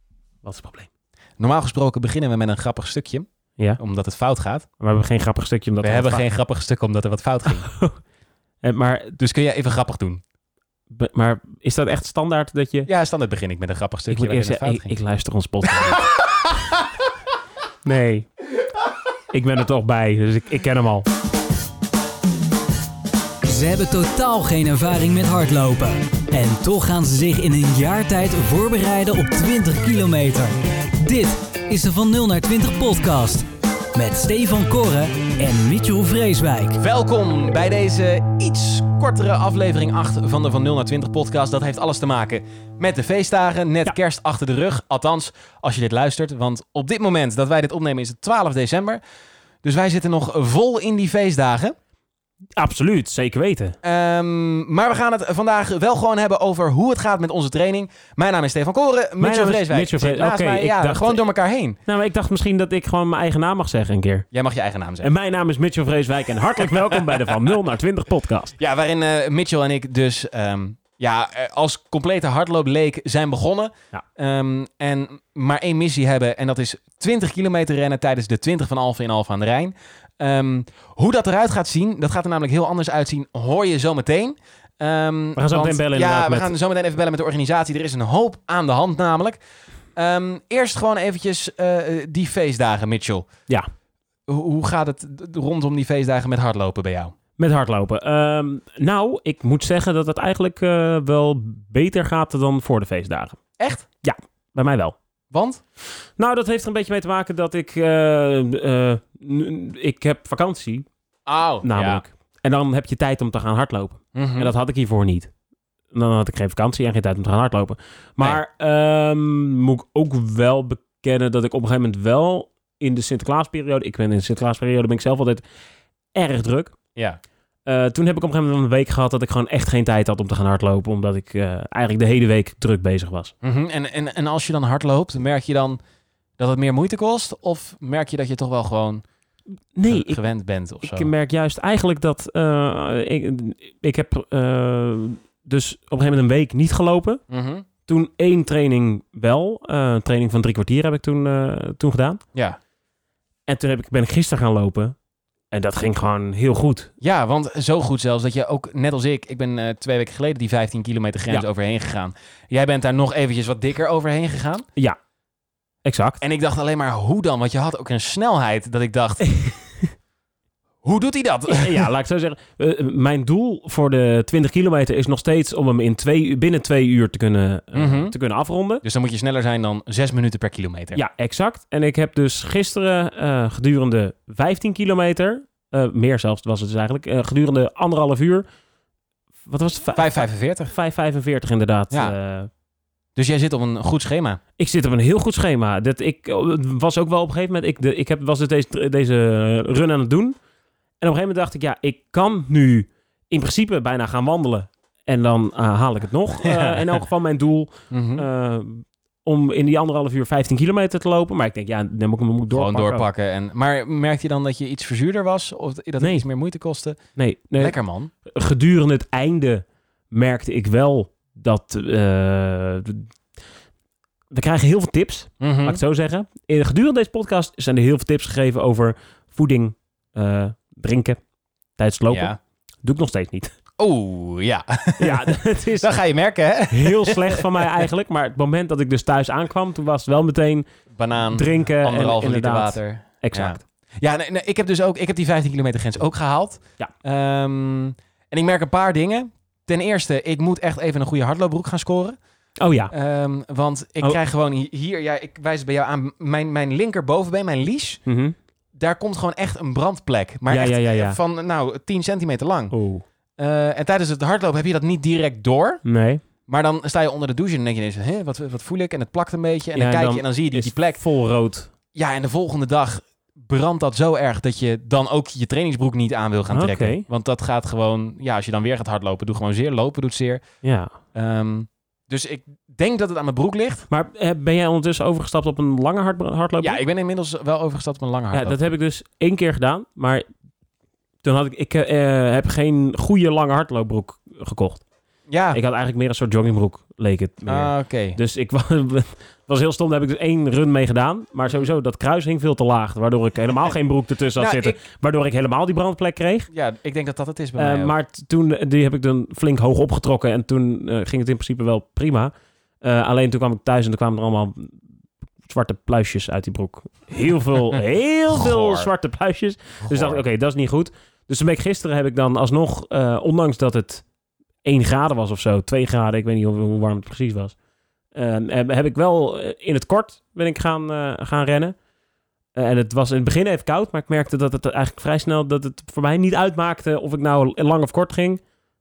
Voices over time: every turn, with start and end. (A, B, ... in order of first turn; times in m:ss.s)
0:00.4-0:00.9 A
0:01.4-0:03.3 B
0:03.8-0:04.7 B
0:04.8-0:06.2 A
0:05.8-0:07.7 B
0:07.6-0:08.0 A
0:08.6-0:09.2 A
0:09.2-0:10.2 B
0:10.9-0:12.9 A
0:12.9-0:15.0 B
0:14.1-0:16.0 A
0:17.8-0:18.3 A
0:19.3-0:21.1 A
0:23.4-0:36.8 C
0:36.8-0:49.0 B
0:49.6-0:51.8 B
0:52.6-0:53.8 A
0:53.8-1:01.8 B
0:59.2-1:01.2 A
1:01.9-1:04.3 A
1:04.3-1:05.1 B
1:05.0-1:08.6 A
1:08.6-1:29.4 B
1:25.4-1:26.5 A
1:30.0-1:33.3 B
1:34.3-1:37.2 B
1:37.4-1:43.4 A
1:43.6-1:43.9 B
1:44.0-1:45.0 A
1:45.3-1:45.6 B
1:46.2-1:50.9 A
1:51.3-1:52.0 B
1:51.6-1:55.3 A
1:54.2-1:54.5 B
1:55.9-2:05.4 A
2:06.1-2:06.8 A
2:07.7-2:13.3 A
2:13.4-2:15.8 B
2:16.4-2:19.0 B
2:19.7-2:20.2 A
2:19.9-2:21.1 B
2:20.8-2:27.2 A
2:27.3-2:27.7 B
2:27.9-2:32.2 A
2:33.5-2:35.0 A
2:35.5-2:36.9 A
2:37.0-2:44.6 B
2:45.8-2:46.2 A
2:46.2-2:49.3 B
2:50.8-2:51.9 B
2:51.5-2:58.8 A
2:57.7-2:58.1 B
2:58.8-3:01.0 B
3:01.0-3:08.5 A
3:09.5-3:12.5 A
3:10.0-3:10.7 B
3:13.2-3:14.4 B
3:14.6-3:20.4 A
3:21.0-3:33.1 A
3:26.4-3:26.8 B
3:27.9-3:28.3 B
3:32.5-3:37.0 B
3:36.0-3:36.3 A
3:37.2-3:43.1 A
3:37.6-3:38.1 B
3:44.3-3:51.2 A
3:45.4-3:45.8 B
3:51.8-3:53.5 A
3:52.1-3:52.4 B
3:53.8-3:57.8 B
3:55.0-3:55.9 A
3:56.7-4:00.7 A
4:00.9-4:12.2 B
4:01.3-4:03.6 A
4:12.6-4:12.9 A
4:12.9-4:18.0 B
4:18.1-4:18.4 A
4:18.8-4:22.8 B
4:20.5-4:21.2 A
4:22.7-4:23.0 A
4:23.4-4:25.8 B
4:25.8-4:26.2 A
4:26.5-4:31.0 B
4:29.8-4:31.7 A
4:31.9-4:40.4 B
4:36.5-4:37.0 A
4:40.6-4:40.9 A
4:41.1-4:43.9 B
4:43.9-4:46.8 A
4:46.6-4:48.7 B
4:48.3-4:50.3 A
4:51.2-4:54.8 A
4:55.3-4:55.6 B
4:55.5-5:06.5 A
4:57.5-4:58.2 B
5:04.4-5:04.8 B
5:06.5-5:08.0 B
5:07.6-5:14.8 A
5:15.4-5:24.0 A
5:18.3-5:18.9 B
5:19.8-5:20.2 B
5:24.6-5:27.6 A
5:28.1-5:31.8 A
5:32.6-5:38.4 A